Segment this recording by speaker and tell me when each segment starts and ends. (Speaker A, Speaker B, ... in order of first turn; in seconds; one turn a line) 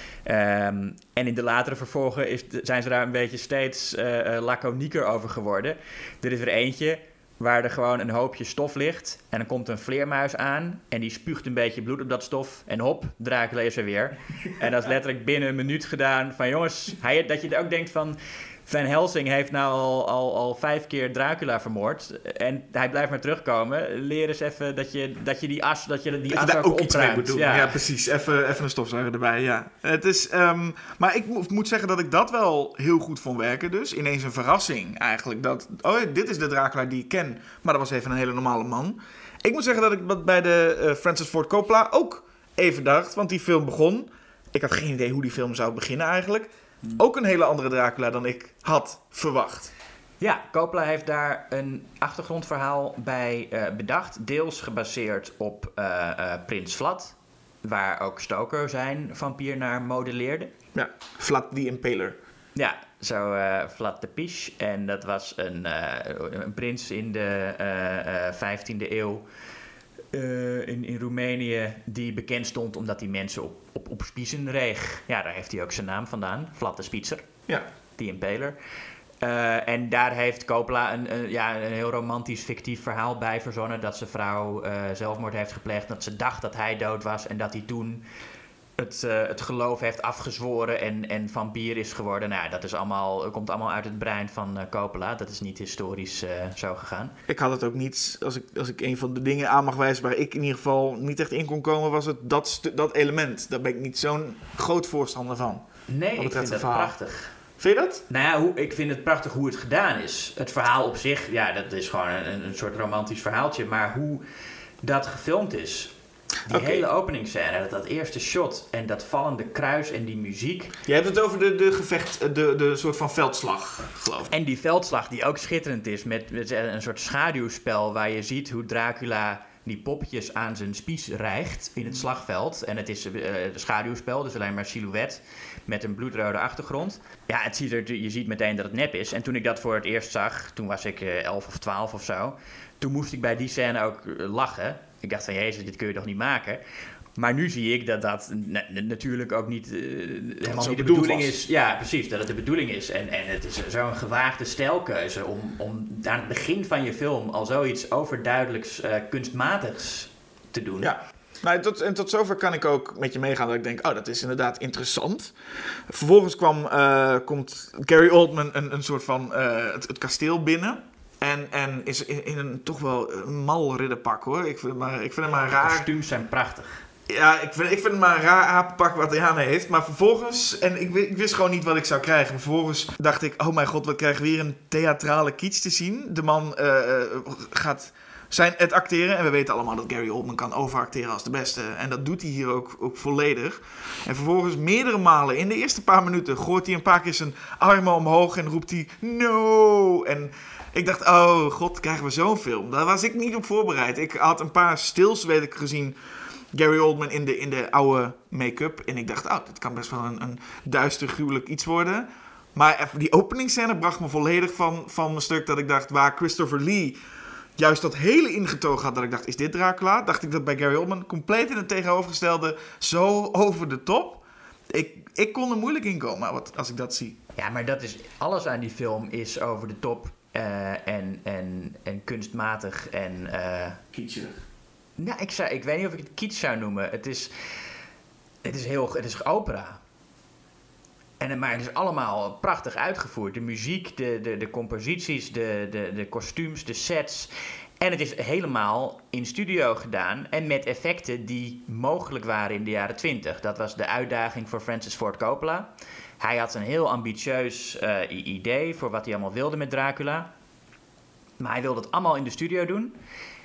Speaker A: 0.3-27.8
Speaker B: 26.3-49.7
Speaker A: 50.2-60.5
Speaker B: 60.7-62.2
Speaker A: 62.6-69.2
Speaker A: 70.1-77.3
Speaker A: 78.0-78.6
Speaker A: 79.2-88.0
Speaker A: 88.8-97.2
Speaker B: 97.3-105.7
Speaker A: 105.9-107.3
Speaker B: 106.2-106.9
Speaker B: 107.6-108.0
Speaker A: 108.1-114.2
Speaker A: 114.8-115.9
Speaker A: 116.5-120.7
Speaker B: 116.5-116.8
Speaker B: 120.9-124.3
Speaker A: 124.3-146.6
Speaker A: 147.2-160.9
Speaker B: 150.5-151.3
Speaker B: 160.8-165.3
Speaker B: 165.9-175.9
Speaker A: 175.6-176.8
Speaker B: 177.1-206.0
Speaker B: 206.5-217.0
Speaker B: 217.6-227.2
Speaker A: 227.4-233.8
Speaker B: 233.9-234.4
Speaker A: 235.0-237.3
Speaker A: 238.4-239.8
Speaker A: 241.2-255.7
Speaker A: 256.2-260.3
Speaker A: 261.4-262.9